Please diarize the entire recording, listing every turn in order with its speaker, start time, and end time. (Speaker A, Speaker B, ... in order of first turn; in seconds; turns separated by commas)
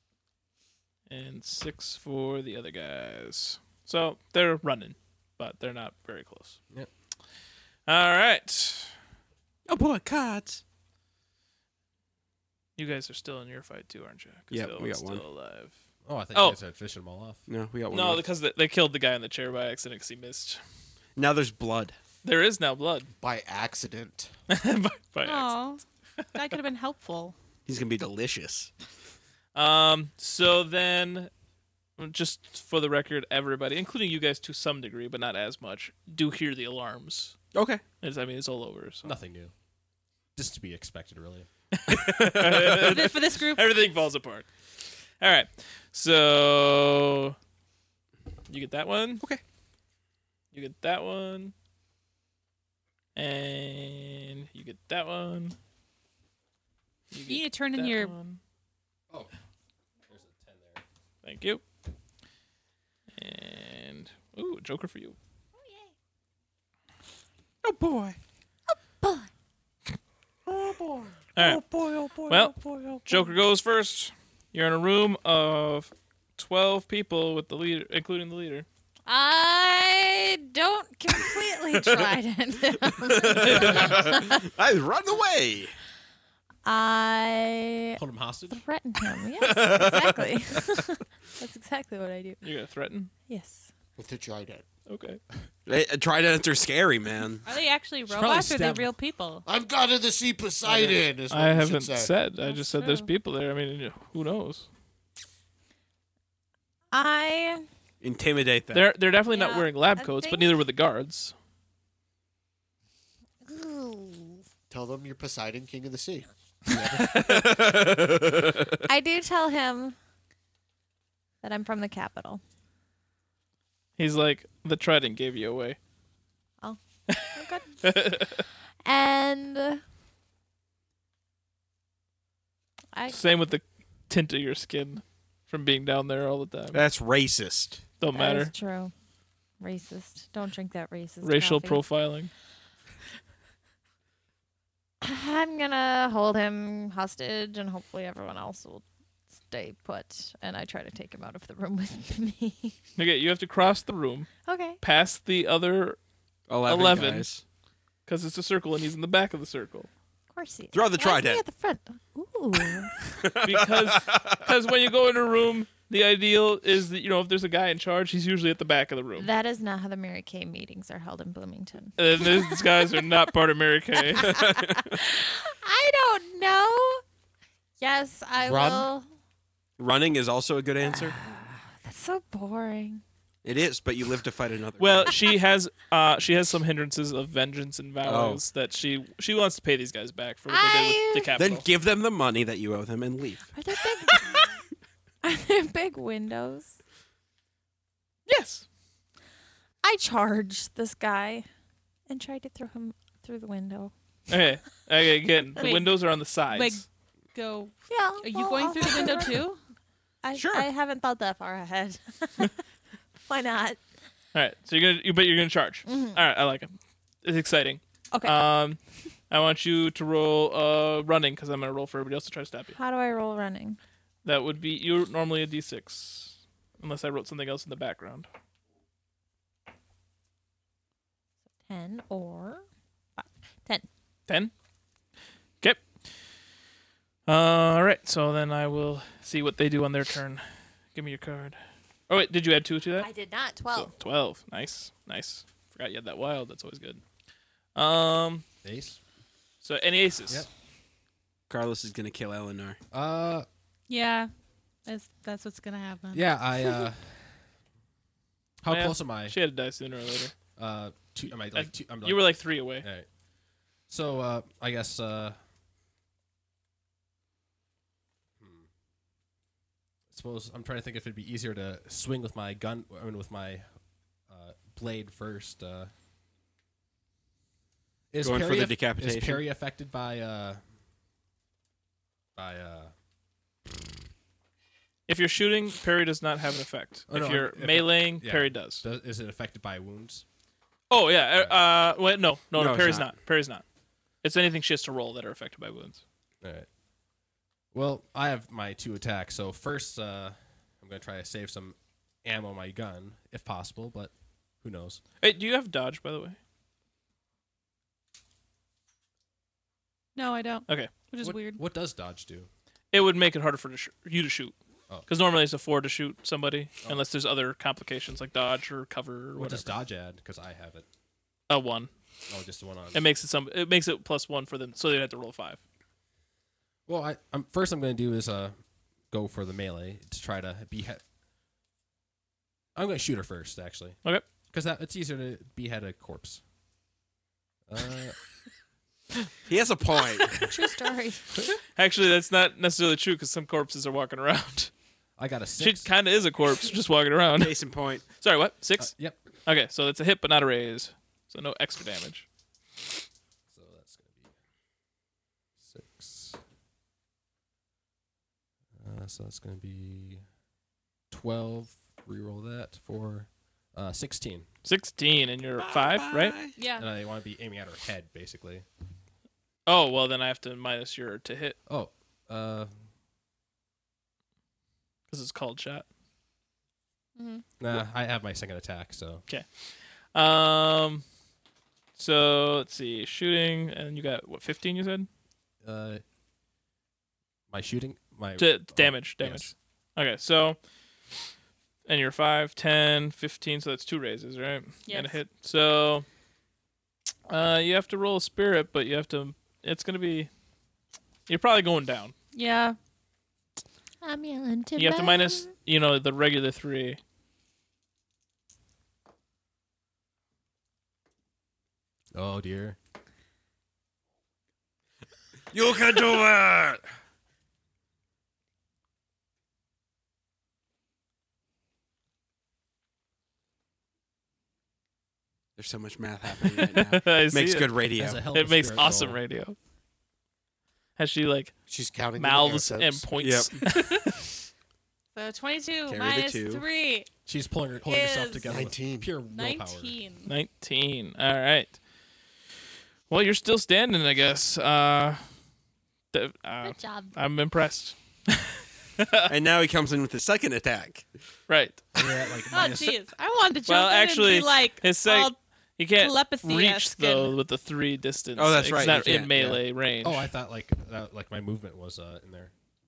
Speaker A: 1.1-6.6, Speaker A: 7.9-9.0, Speaker B: 9.7-10.6, Speaker A: 12.8-15.7, Speaker B: 14.5-15.2, Speaker C: 16.0-17.4, Speaker B: 17.5-18.2, Speaker A: 17.9-20.6, Speaker B: 21.1-22.0, Speaker A: 22.2-23.1, Speaker D: 23.2-24.3, Speaker A: 24.5-25.5, Speaker E: 25.2-25.8, Speaker E: 26.3-27.3, Speaker B: 27.6-28.7, Speaker A: 29.5-31.3, Speaker A: 32.0-37.4, Speaker B: 37.5-37.8, Speaker A: 38.0-39.1, Speaker C: 39.0-39.5, Speaker C: 40.4-41.5, Speaker A: 41.7-44.5, Speaker B: 42.0-42.9, Speaker E: 42.8-43.8, Speaker A: 45.2-47.4, Speaker A: 48.5-49.2, Speaker A: 50.5-51.5, Speaker A: 53.1-55.6, Speaker A: 57.1-58.4, Speaker E: 57.3-58.1, Speaker C: 60.1-60.8, Speaker A: 61.2-61.6, Speaker A: 63.1-65.2, Speaker F: 65.6-65.9, Speaker B: 67.6-68.2, Speaker F: 69.0-69.3, Speaker B: 70.5-70.8, Speaker A: 71.3-71.6, Speaker B: 71.4-73.0, Speaker A: 72.3-72.5, Speaker A: 73.0-78.7, Speaker F: 79.0-84.4, Speaker B: 81.7-82.1, Speaker B: 82.8-85.7, Speaker F: 86.6-92.4, Speaker C: 88.0-88.6, Speaker B: 89.4-90.3, Speaker A: 92.4-93.1, Speaker F: 93.3-93.7, Speaker D: 94.0-94.6, Speaker A: 94.9-95.2, Speaker B: 95.7-97.5, Speaker E: 97.4-99.4, Speaker C: 98.1-98.9, Speaker D: 99.5-102.1, Speaker A: 101.3-104.7, Speaker F: 102.4-103.1, Speaker F: 106.9-107.6, Speaker B: 108.0-108.9, Speaker A: 108.7-111.3, Speaker F: 109.3-110.5, Speaker F: 113.5-114.4, Speaker D: 114.7-117.2, Speaker A: 117.0-117.4, Speaker B: 117.0-118.8, Speaker F: 118.8-120.0, Speaker F: 121.4-122.4, Speaker A: 124.0-125.8, Speaker F: 126.6-128.3, Speaker A: 127.1-128.4, Speaker F: 128.8-129.8, Speaker A: 133.1-136.8, Speaker B: 136.7-137.8, Speaker A: 138.0-138.5, Speaker F: 138.1-138.9, Speaker F: 139.6-141.8, Speaker A: 141.2-142.3, Speaker F: 145.0-148.8, Speaker F: 149.4-152.8, Speaker A: 153.0-156.0, Speaker F: 154.4-154.8, Speaker B: 156.5-157.4, Speaker A: 156.6-157.3, Speaker A: 158.1-159.9, Speaker F: 160.3-163.3, Speaker B: 160.7-161.4, Speaker B: 163.2-164.4, Speaker A: 163.4-169.3, Speaker F: 169.2-172.8, Speaker A: 172.0-174.3, Speaker F: 174.1-177.0, Speaker B: 174.2-174.9, Speaker F: 177.8-179.1, Speaker D: 178.4-178.9, Speaker B: 179.8-181.2, Speaker F: 180.8-183.0, Speaker B: 183.4-185.2, Speaker A: 184.8-191.7, Speaker B: 188.0-188.4, Speaker F: 190.5-191.3, Speaker B: 191.4-193.5, Speaker F: 193.5-194.6, Speaker F: 195.2-196.8, Speaker A: 198.3-198.7, Speaker F: 199.8-201.4, Speaker F: 202.1-203.9, Speaker A: 204.3-206.8, Speaker E: 205.6-209.6, Speaker F: 207.9-209.5, Speaker F: 210.2-212.6, Speaker B: 210.3-210.7, Speaker F: 213.2-213.8, Speaker A: 214.3-222.8, Speaker F: 215.8-216.2, Speaker F: 218.1-218.5, Speaker F: 222.8-223.8, Speaker A: 224.2-228.3, Speaker F: 231.7-232.6, Speaker A: 234.3-234.5, Speaker A: 235.6-235.9, Speaker A: 237.3-243.1, Speaker F: 243.0-243.9, Speaker A: 243.7-247.0, Speaker A: 247.7-248.4, Speaker C: 248.6-249.0, Speaker A: 249.6-250.5, Speaker B: 251.5-252.8, Speaker C: 252.9-253.5, Speaker E: 253.9-254.3, Speaker E: 254.8-256.3, Speaker C: 256.1-257.3, Speaker C: 258.6-259.4, Speaker A: 258.7-260.3, Speaker C: 260.6-263.1, Speaker A: 261.5-262.9, Speaker C: 263.9-265.4, Speaker C: 268.4-268.7, Speaker C: 270.1-273.7, Speaker C: 274.3-275.9, Speaker C: 278.1-280.6, Speaker B: 278.2-279.4, Speaker C: 282.4-282.9, Speaker A: 285.1-288.8, Speaker C: 287.1-290.2, Speaker A: 290.9-293.6, Speaker B: 292.5-293.1, Speaker A: 294.2-296.0, Speaker C: 296.4-296.7, Speaker C: 297.7-305.0, Speaker A: 305.2-306.4, Speaker E: 310.1-311.6, Speaker C: 311.2-312.5, Speaker A: 312.9-314.5, Speaker A: 315.1-319.7, Speaker C: 319.4-320.9, Speaker A: 321.5-321.9, Speaker C: 322.3-323.0, Speaker A: 322.9-325.6, Speaker C: 326.9-328.6, Speaker C: 329.1-331.0, Speaker C: 332.7-334.0, Speaker C: 334.5-336.4, Speaker C: 337.7-338.2, Speaker B: 339.4-340.5, Speaker F: 340.3-341.3, Speaker A: 341.7-344.7, Speaker C: 345.2-345.9, Speaker A: 345.6-347.6, Speaker B: 347.4-348.0, Speaker A: 348.1-348.9, Speaker C: 348.8-349.2, Speaker A: 349.4-352.2, Speaker C: 353.5-354.3, Speaker C: 355.6-356.4, Speaker C: 358.8-360.2, Speaker C: 361.1-364.5, Speaker A: 364.6-366.4, Speaker B: 365.6-366.5, Speaker E: 366.6-366.9, Speaker C: 366.8-368.6, Speaker A: 369.7-371.6, Speaker C: 371.7-372.7, Speaker A: 375.1-375.9, Speaker E: 377.1-377.4, Speaker C: 377.6-379.2, Speaker A: 380.1-381.0, Speaker A: 382.0-385.1, Speaker C: 385.6-386.0, Speaker C: 387.5-389.5, Speaker A: 388.4-390.6, Speaker A: 391.9-396.1, Speaker E: 394.9-395.2, Speaker A: 397.3-400.3, Speaker A: 401.3-402.1, Speaker E: 402.3-402.8, Speaker F: 404.0-405.5, Speaker A: 404.8-407.0, Speaker C: 412.1-412.8, Speaker B: 415.5-416.8, Speaker B: 425.6-428.2, Speaker A: 426.7-427.7, Speaker C: 428.0-429.2, Speaker A: 428.3-429.6, Speaker A: 431.0-431.5, Speaker D: 431.7-433.0, Speaker A: 432.2-434.3, Speaker B: 433.2-433.7, Speaker E: 435.1-437.1, Speaker B: 435.9-436.6, Speaker C: 437.2-439.9, Speaker E: 437.8-438.5, Speaker D: 438.4-439.2, Speaker E: 439.2-440.3, Speaker A: 440.3-441.8, Speaker A: 443.1-445.3, Speaker A: 446.1-449.3, Speaker E: 446.7-447.1, Speaker B: 449.3-451.1, Speaker A: 451.5-451.9, Speaker C: 451.9-453.0, Speaker E: 452.5-455.4, Speaker A: 453.6-460.3, Speaker E: 456.0-457.4, Speaker B: 458.4-459.6, Speaker C: 460.0-462.5